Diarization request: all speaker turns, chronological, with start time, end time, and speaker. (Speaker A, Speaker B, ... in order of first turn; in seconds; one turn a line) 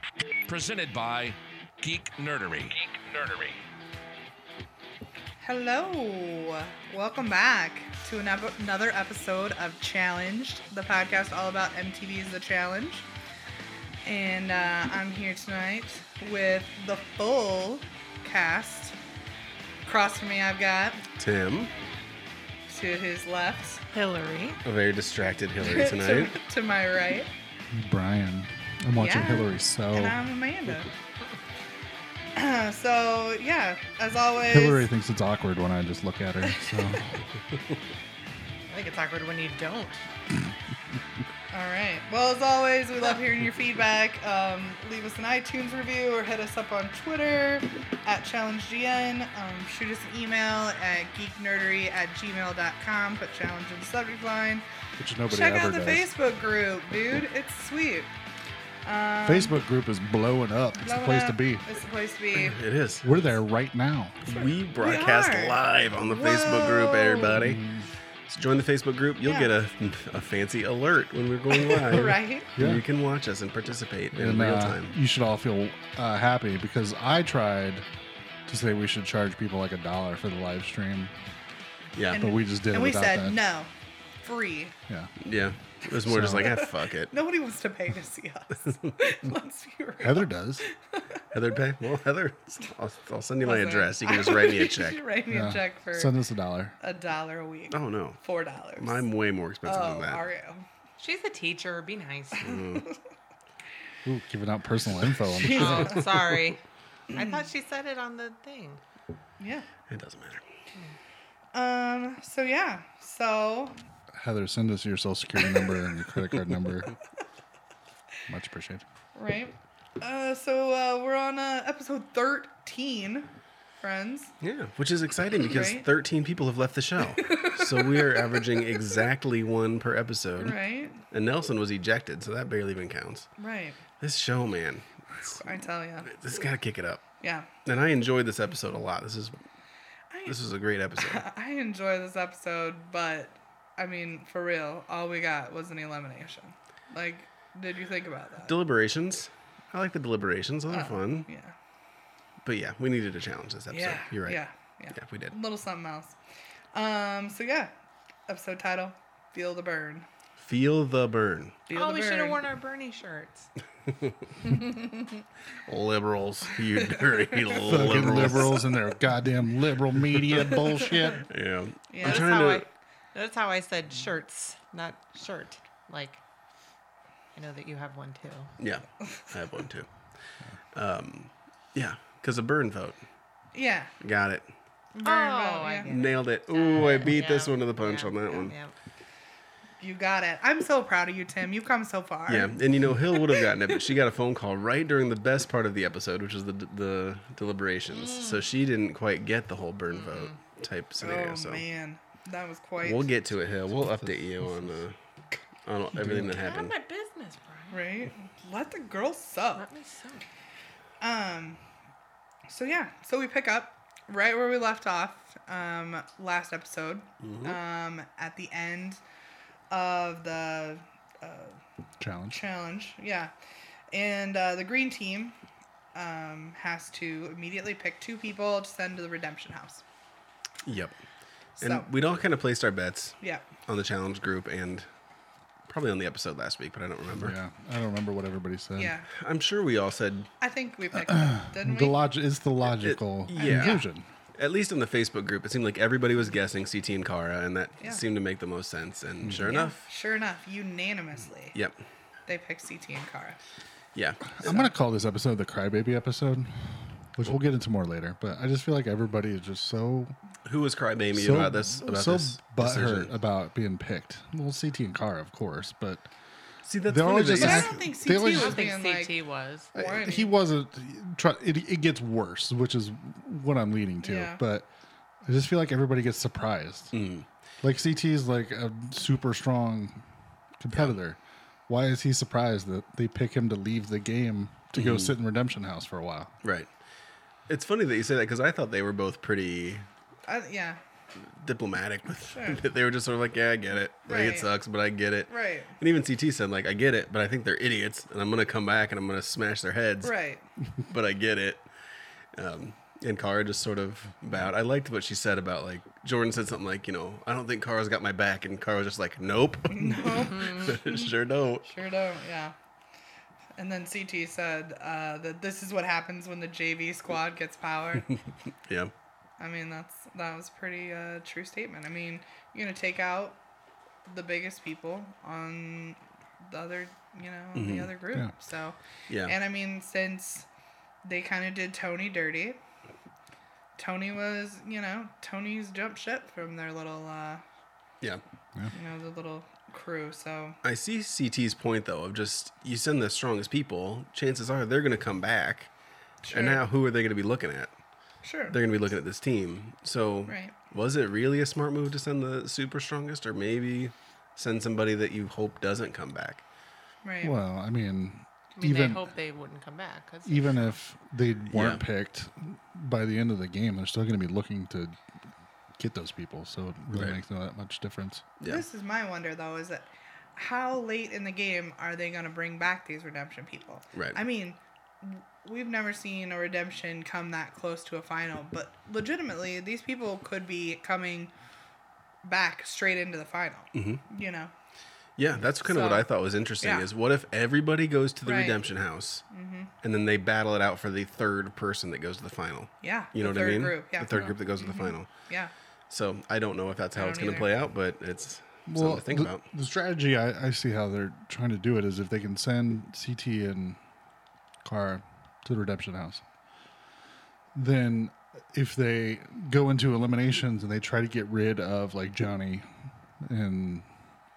Speaker A: 0.5-3.6
Speaker B: 5.4-13.1
Speaker B: 14.1-19.0
Speaker B: 19.9-21.0
Speaker C: 21.2-21.7
Speaker B: 22.7-23.8
Speaker D: 23.9-24.6
Speaker C: 24.6-26.4
Speaker B: 25.6-27.3
Speaker E: 27.7-30.2
Speaker B: 29.0-30.9
Speaker B: 32.4-34.9
Speaker E: 34.5-37.2
Speaker B: 36.5-37.0
Speaker D: 38.7-40.0
Speaker B: 41.5-54.6
Speaker E: 55.0-56.1
Speaker B: 55.3-58.1
Speaker B: 58.9-59.6
Speaker E: 59.2-61.6
Speaker B: 60.8-62.6
Speaker C: 62.4-63.1
Speaker E: 63.0-64.2
Speaker C: 64.2-67.6
Speaker B: 64.3-67.4
Speaker E: 67.4-67.9
Speaker C: 68.3-75.0
Speaker B: 69.2-69.5
Speaker B: 71.5-72.5
Speaker E: 72.6-72.8
Speaker E: 74.1-77.9
Speaker E: 78.5-81.1
Speaker C: 82.0-82.2
Speaker B: 82.1-83.7
Speaker E: 82.1-83.4
Speaker B: 84.2-84.8
Speaker E: 84.9-85.1
Speaker C: 85.2-87.1
Speaker E: 86.0-86.5
Speaker B: 86.2-91.2
Speaker E: 90.0-90.6
Speaker C: 91.3-95.0
Speaker B: 93.4-96.1
Speaker E: 95.3-96.8
Speaker B: 96.8-99.1
Speaker C: 97.7-98.2
Speaker C: 98.8-100.2
Speaker B: 99.7-100.6
Speaker D: 101.0-102.5
Speaker C: 102.4-102.9
Speaker B: 102.5-103.0
Speaker E: 104.0-106.1
Speaker D: 105.4-106.6
Speaker B: 105.5-106.0
Speaker B: 107.1-107.5
Speaker D: 107.1-108.8
Speaker B: 109.4-109.7
Speaker C: 109.9-110.4
Speaker B: 111.5-113.8
Speaker E: 114.1-116.9
Speaker E: 118.3-118.8
Speaker B: 119.2-124.3
Speaker C: 124.4-133.3
Speaker B: 125.5-125.9
Speaker B: 127.2-128.8
Speaker B: 130.4-131.0
Speaker B: 133.4-133.8
Speaker C: 134.0-135.4
Speaker B: 135.4-136.1
Speaker C: 136.0-137.1
Speaker B: 137.2-137.5
Speaker C: 137.7-139.4
Speaker B: 140.1-140.4
Speaker C: 140.3-141.2
Speaker B: 141.0-148.6
Speaker C: 148.5-151.3
Speaker B: 150.7-151.5
Speaker C: 152.4-154.4
Speaker B: 153.7-156.2
Speaker C: 154.9-155.4
Speaker B: 156.7-157.7
Speaker B: 158.3-160.1
Speaker C: 160.4-161.6
Speaker B: 161.7-162.4
Speaker D: 161.7-163.5
Speaker C: 163.9-164.1
Speaker B: 164.5-165.1
Speaker C: 165.7-168.7
Speaker B: 167.3-167.6
Speaker E: 167.7-171.3
Speaker B: 170.5-170.9
Speaker C: 171.3-172.7
Speaker B: 171.9-172.4
Speaker D: 172.0-176.2
Speaker D: 177.3-178.6
Speaker C: 178.6-179.9
Speaker C: 180.7-183.0
Speaker B: 183.5-183.9
Speaker C: 184.0-184.5
Speaker D: 184.9-188.7
Speaker B: 185.0-185.9
Speaker C: 185.9-188.5
Speaker B: 189.8-192.6
Speaker C: 192.3-201.6
Speaker B: 193.1-193.8
Speaker D: 198.0-198.4
Speaker D: 199.9-200.3
Speaker B: 201.0-203.1
Speaker C: 202.8-205.0
Speaker C: 205.7-206.7
Speaker E: 206.0-206.4
Speaker D: 206.3-207.8
Speaker B: 207.7-209.7
Speaker D: 209.6-210.2
Speaker B: 211.0-211.6
Speaker B: 212.5-219.0
Speaker C: 217.2-217.6
Speaker B: 219.7-221.6
Speaker E: 222.0-222.4
Speaker B: 222.3-223.3
Speaker B: 223.9-225.4
Speaker B: 225.9-229.8
Speaker C: 230.7-231.0
Speaker B: 231.6-231.9
Speaker C: 231.6-234.9
Speaker C: 235.7-237.3
Speaker E: 237.1-238.9
Speaker B: 238.8-239.1
Speaker C: 239.1-240.3
Speaker B: 240.4-242.0
Speaker E: 241.0-244.1
Speaker C: 242.7-243.8
Speaker B: 243.4-243.8
Speaker C: 244.3-249.8
Speaker B: 249.4-251.6
Speaker B: 252.3-253.4
Speaker C: 253.9-254.7
Speaker E: 254.3-260.2
Speaker C: 260.5-263.1
Speaker E: 261.1-266.1
Speaker C: 266.6-267.8
Speaker E: 266.9-268.7
Speaker B: 267.4-269.2
Speaker D: 268.2-269.7
Speaker B: 269.7-270.4
Speaker E: 269.7-274.7
Speaker B: 274.0-274.4
Speaker E: 275.2-276.9
Speaker C: 276.9-277.3
Speaker E: 277.6-280.0
Speaker E: 280.6-286.3
Speaker C: 284.8-285.1
Speaker C: 286.4-286.7
Speaker C: 287.5-289.9
Speaker B: 290.3-290.8
Speaker C: 291.2-300.1
Speaker B: 292.3-292.6
Speaker B: 294.1-294.5
Speaker B: 295.3-295.7
Speaker B: 300.0-300.5
Speaker C: 300.9-301.7
Speaker C: 302.3-311.7
Speaker B: 309.7-312.6
Speaker D: 310.4-310.7
Speaker B: 313.6-318.1
Speaker C: 318.1-318.9
Speaker B: 319.4-323.4
Speaker B: 324.1-330.5
Speaker C: 327.6-327.9
Speaker C: 329.1-329.3
Speaker B: 331.0-332.6
Speaker B: 333.8-337.4
Speaker B: 338.7-340.6
Speaker C: 340.6-345.7
Speaker B: 346.2-346.6
Speaker C: 346.3-347.7
Speaker B: 348.2-348.6
Speaker C: 348.5-356.4
Speaker B: 350.3-350.5
Speaker B: 357.0-357.4
Speaker E: 357.2-359.0
Speaker D: 358.6-360.8
Speaker E: 360.3-365.0
Speaker C: 361.5-361.8
Speaker E: 365.8-368.2
Speaker C: 368.4-368.6
Speaker B: 368.4-381.3
Speaker C: 373.9-374.2
Speaker B: 382.2-384.5
Speaker C: 383.7-384.0
Speaker C: 385.2-389.2
Speaker B: 385.6-386.1
Speaker B: 386.6-386.9
Speaker B: 388.2-388.6
Speaker B: 389.3-389.7
Speaker C: 389.8-395.1
Speaker B: 392.8-395.5
Speaker C: 395.9-399.4
Speaker B: 397.0-397.5
Speaker E: 398.7-403.8
Speaker E: 404.6-406.2
Speaker E: 407.5-412.7
Speaker E: 413.2-413.9